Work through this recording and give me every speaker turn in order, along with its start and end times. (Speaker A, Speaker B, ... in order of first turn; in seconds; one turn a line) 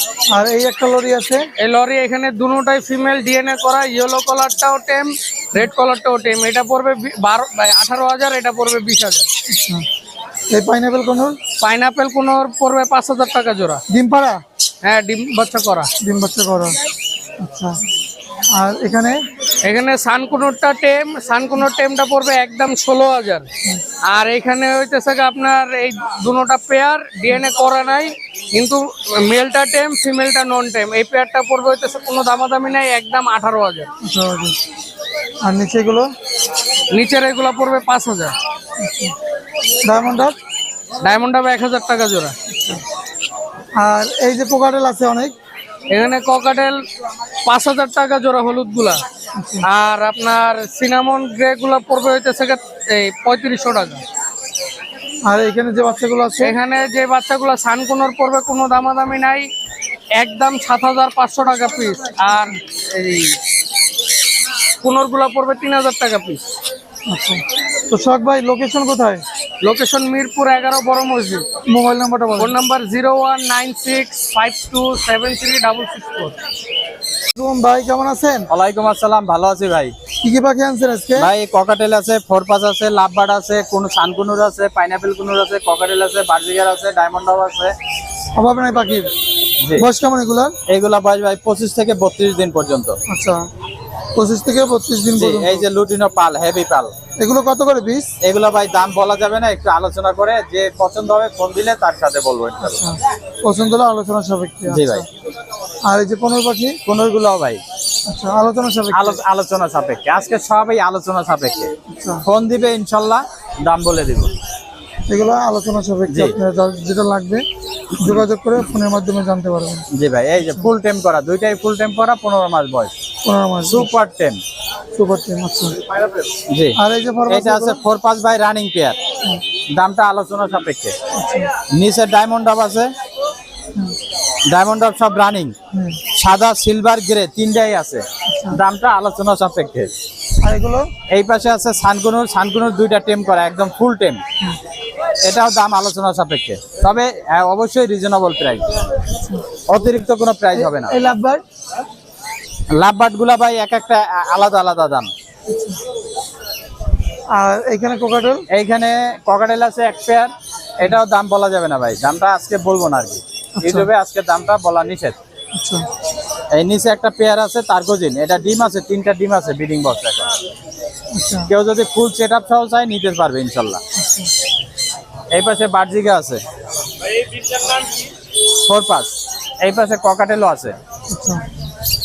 Speaker A: 0.3-1.4
Speaker B: 1.6-9.3
Speaker A: 9.5-9.8
Speaker A: 10.5-11.4
Speaker B: 11.6-13.8
Speaker A: 13.9-14.4
Speaker B: 14.8-15.9
Speaker A: 16.0-16.8
Speaker A: 17.4-17.8
Speaker A: 18.6-19.2
Speaker B: 19.6-23.5
Speaker B: 24.1-33.9
Speaker A: 34.0-34.6
Speaker A: 35.4-36.1
Speaker B: 36.9-38.4
Speaker A: 38.8-39.1
Speaker A: 39.8-40.4
Speaker B: 41.0-42.3
Speaker A: 42.5-42.8
Speaker A: 43.8-45.3
Speaker B: 45.9-46.8
Speaker B: 47.5-49.0
Speaker A: 49.4-49.7
Speaker B: 49.6-54.0
Speaker A: 55.2-56.6
Speaker B: 56.4-59.5
Speaker B: 60.1-63.4
Speaker B: 64.8-66.4
Speaker A: 67.1-69.2
Speaker B: 69.6-71.5
Speaker A: 71.7-72.5
Speaker B: 72.4-76.3
Speaker A: 77.3-78.5
Speaker C: 78.5-79.9
Speaker A: 80.2-81.3
Speaker C: 81.2-87.7
Speaker A: 88.3-89.1
Speaker A: 89.7-90.5
Speaker C: 90.7-93.0
Speaker A: 93.1-93.4
Speaker A: 94.1-95.7
Speaker C: 95.2-96.9
Speaker A: 97.2-98.1
Speaker C: 98.2-102.8
Speaker A: 102.6-105.1
Speaker C: 104.7-105.0
Speaker A: 105.8-106.8
Speaker C: 106.8-107.6
Speaker A: 108.1-109.2
Speaker C: 108.9-111.7
Speaker A: 111.9-112.2
Speaker C: 112.3-114.3
Speaker A: 115.1-117.4
Speaker C: 116.1-116.3
Speaker A: 118.0-119.8
Speaker C: 119.9-122.9
Speaker A: 120.4-120.7
Speaker A: 123.2-123.9
Speaker C: 123.6-124.4
Speaker A: 124.9-125.8
Speaker C: 126.5-126.8
Speaker A: 126.7-127.8
Speaker C: 127.3-129.0
Speaker C: 129.7-130.9
Speaker A: 131.1-131.5
Speaker C: 131.7-132.9
Speaker C: 134.5-135.5
Speaker A: 135.7-136.0
Speaker C: 136.1-139.9
Speaker A: 138.3-138.6
Speaker A: 140.4-140.8
Speaker C: 141.1-144.2
Speaker C: 145.2-148.7
Speaker C: 149.7-150.9
Speaker A: 150.5-151.4
Speaker C: 152.7-155.1
Speaker A: 155.5-155.8
Speaker A: 157.3-158.4
Speaker C: 158.5-165.2
Speaker A: 163.6-163.9
Speaker A: 165.5-165.8
Speaker C: 166.5-170.3
Speaker A: 171.2-171.5
Speaker C: 171.5-173.8
Speaker A: 174.0-174.3
Speaker C: 175.3-176.4
Speaker C: 178.7-180.8
Speaker A: 181.1-181.4